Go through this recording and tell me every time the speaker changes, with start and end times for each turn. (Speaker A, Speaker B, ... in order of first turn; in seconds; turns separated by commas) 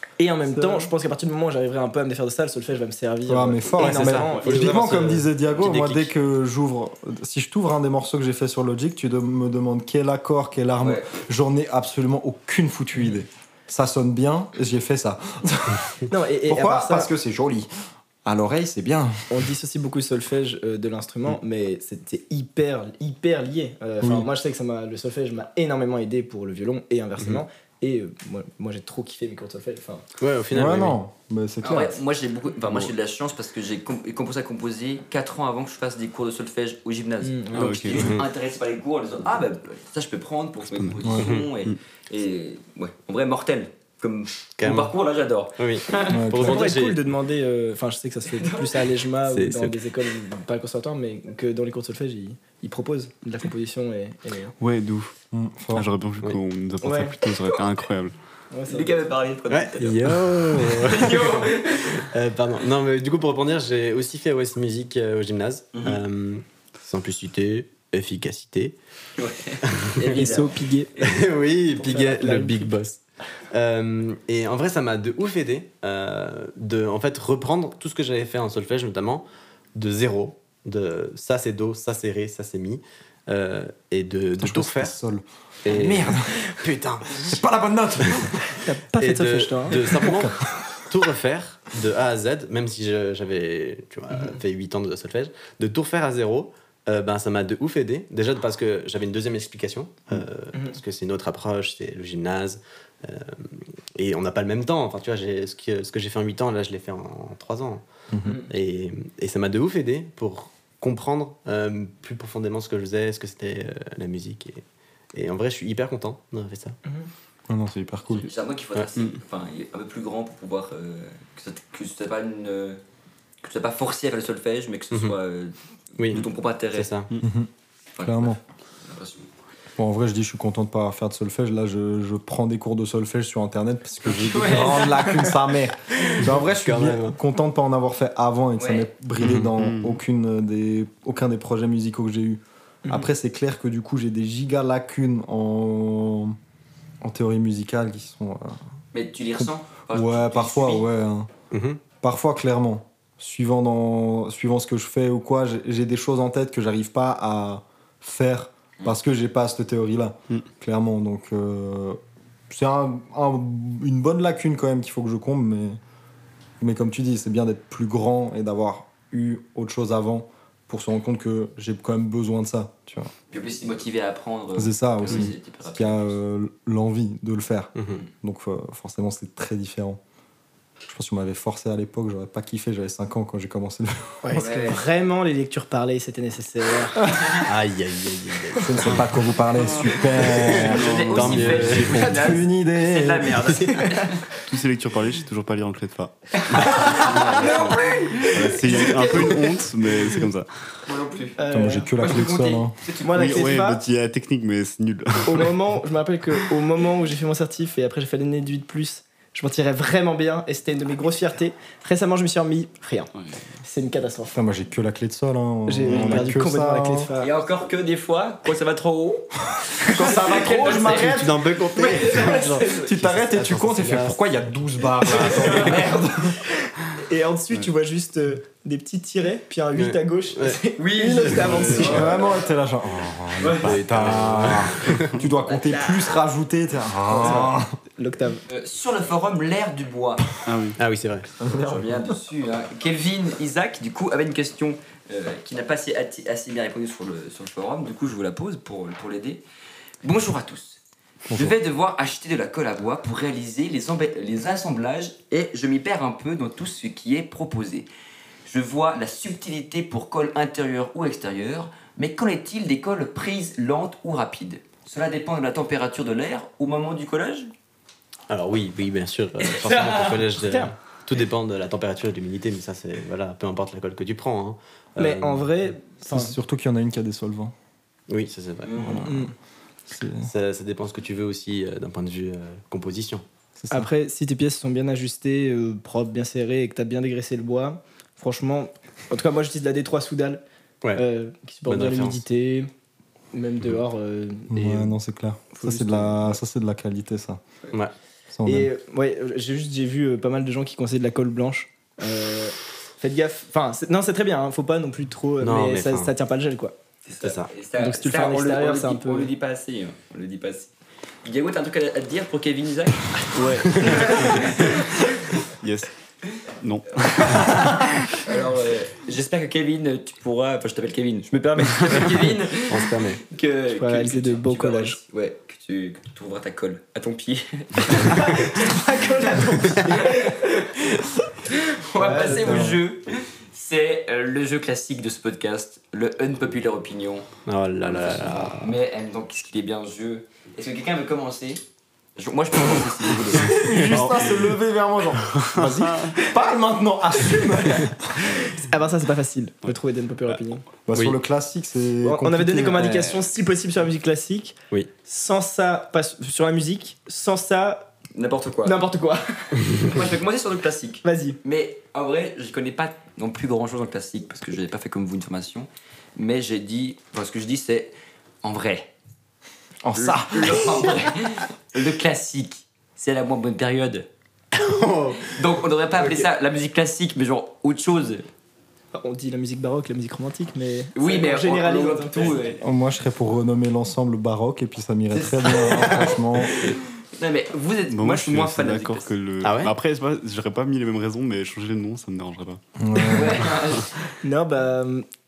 Speaker A: 0.2-5.2, Speaker B: 0.5-0.9, Speaker B: 3.3-17.7, Speaker C: 3.8-6.1, Speaker D: 10.8-11.1, Speaker A: 16.1-17.1, Speaker B: 18.2-19.2, Speaker A: 19.3-30.0, Speaker B: 24.0-24.3, Speaker C: 27.2-27.4, Speaker C: 30.2-31.0, Speaker B: 30.5-32.0, Speaker D: 31.6-46.2, Speaker A: 37.2-38.0, Speaker E: 37.5-38.1, Speaker C: 38.0-38.3, Speaker E: 40.7-41.8, Speaker B: 41.0-41.3, Speaker C: 41.2-41.5, Speaker C: 44.6-44.9, Speaker C: 45.6-47.0, Speaker B: 46.1-46.6, Speaker A: 46.4-54.5, Speaker D: 48.3-48.9, Speaker C: 49.3-49.8, Speaker E: 54.6-55.1, Speaker B: 55.3-55.9, Speaker E: 55.7-58.1, Speaker A: 56.8-57.2, Speaker A: 58.5-59.0, Speaker D: 58.7-62.1, Speaker C: 59.5-68.8, Speaker D: 65.7-66.0, Speaker D: 69.2-71.1, Speaker C: 69.8-70.3, Speaker A: 70.0-70.9, Speaker C: 71.0-73.0, Speaker A: 71.8-72.8, Speaker C: 73.5-85.0, Speaker B: 84.4-86.4, Speaker C: 85.6-87.4, Speaker A: 85.7-86.2, Speaker B: 87.1-88.6, Speaker C: 88.0-88.3, Speaker A: 88.6-90.0, Speaker C: 89.0-116.8, Speaker B: 89.8-90.5, Speaker B: 108.1-108.4, Speaker B: 117.5-118.3, Speaker D: 118.2-122.8, Speaker D: 123.4-126.9, Speaker C: 126.0-127.1, Speaker B: 127.2-127.5, Speaker D: 128.0-129.3, Speaker B: 128.0-128.4, Speaker B: 129.8-146.4, Speaker D: 134.1-135.3, Speaker C: 136.1-137.2, Speaker D: 138.6-138.9, Speaker E: 139.2-140.0, Speaker B: 147.0-148.6, Speaker D: 148.9-150.9, Speaker B: 149.4-151.3, Speaker C: 151.5-151.8, Speaker B: 152.0-162.0, Speaker B: 162.5-165.8, Speaker B: 166.6-173.1, Speaker D: 173.3-176.2, Speaker B: 174.6-177.7, Speaker C: 177.8-178.0, Speaker B: 178.2-180.0, Speaker B: 180.9-184.3, Speaker A: 184.3-187.2, Speaker D: 184.3-184.8, Speaker C: 187.4-189.2, Speaker B: 188.6-190.9, Speaker E: 189.5-191.9, Speaker C: 190.2-192.4, Speaker D: 190.5-194.2, Speaker B: 191.4-193.6, Speaker C: 193.3-193.6, Speaker A: 193.8-194.1, Speaker E: 194.4-197.7, Speaker D: 196.6-199.4, Speaker A: 196.7-199.4, Speaker C: 197.1-197.8, Speaker E: 198.3-200.5, Speaker C: 199.1-199.4, Speaker D: 200.9-201.4, Speaker A: 201.4-201.9, Speaker B: 201.5-202.8, Speaker D: 202.0-203.1, Speaker A: 203.0-203.8, Speaker E: 203.1-205.6, Speaker A: 205.2-213.1, Speaker A: 213.6-214.4, Speaker B: 214.3-217.1, Speaker A: 215.7-217.4, Speaker E: 215.9-216.3, Speaker D: 217.2-222.9, Speaker B: 219.8-221.4, Speaker C: 221.0-224.2, Speaker A: 222.0-222.5, Speaker B: 222.6-226.3, Speaker D: 225.1-226.3, Speaker A: 227.0-232.2, Speaker C: 229.7-230.6, Speaker D: 230.8-232.5, Speaker E: 231.3-232.1, Speaker B: 231.7-237.7, Speaker D: 233.4-233.8, Speaker E: 233.6-235.2, Speaker C: 233.6-235.1, Speaker D: 235.4-236.2, Speaker A: 237.1-238.4, Speaker D: 238.5-240.4, Speaker E: 240.4-240.8, Speaker C: 240.8-241.3, Speaker B: 241.4-241.9, Speaker D: 241.5-249.4, Speaker D: 250.0-250.8, Speaker B: 251.3-251.6, Speaker D: 251.3-257.9, Speaker D: 258.5-267.5, Speaker C: 268.3-275.5, Speaker D: 269.4-270.3, Speaker A: 270.5-270.7, Speaker A: 275.0-276.4, Speaker B: 276.0-277.5, Speaker C: 278.1-279.1, Speaker D: 278.6-279.1, Speaker B: 278.8-279.3, Speaker A: 279.0-279.3, Speaker B: 279.9-280.3, Speaker C: 280.2-283.2, Speaker B: 283.6-283.9, Speaker A: 283.7-290.4, Speaker A: 290.9-292.7, Speaker C: 291.7-292.2, Speaker A: 293.3-294.9, Speaker B: 294.5-297.4, Speaker A: 295.6-296.4, Speaker B: 298.3-298.7, Speaker A: 298.5-306.7, Speaker C: 305.4-306.1, Speaker D: 307.1-310.7, Speaker C: 307.2-307.5, Speaker A: 307.8-309.3, Speaker D: 311.2-315.2, Speaker E: 313.3-314.7, Speaker C: 313.8-314.0, Speaker E: 315.6-315.9, Speaker E: 316.6-317.9, Speaker D: 317.1-328.8, Speaker C: 322.7-323.2, Speaker A: 323.7-325.0, Speaker A: 328.0-330.5, Speaker D: 329.6-330.7, Speaker D: 331.5-337.3, Speaker A: 332.0-332.7, Speaker B: 332.2-332.8, Speaker C: 337.5-338.8, Speaker D: 337.8-341.6, Speaker D: 342.2-343.8, Speaker B: 343.5-348.3, Speaker E: 343.6-344.6, Speaker E: 345.3-346.2, Speaker A: 348.5-350.6, Speaker B: 350.9-353.0, Speaker C: 350.9-351.2, Speaker A: 352.0-357.9, Speaker D: 358.1-358.8, Speaker A: 358.6-359.6, Speaker D: 359.8-368.9, Speaker A: 361.0-361.4, Speaker B: 369.8-371.0, Speaker D: 369.9-374.1, Speaker C: 374.5-375.4, Speaker D: 375.2-378.3, Speaker C: 376.0-376.3, Speaker A: 378.9-382.4, Speaker D: 381.0-382.6, Speaker B: 382.6-386.7, Speaker D: 385.1-389.1, Speaker E: 387.9-392.6, Speaker C: 389.4-389.7, Speaker B: 392.8-393.5, Speaker D: 393.1-393.9, Speaker A: 394.2-395.1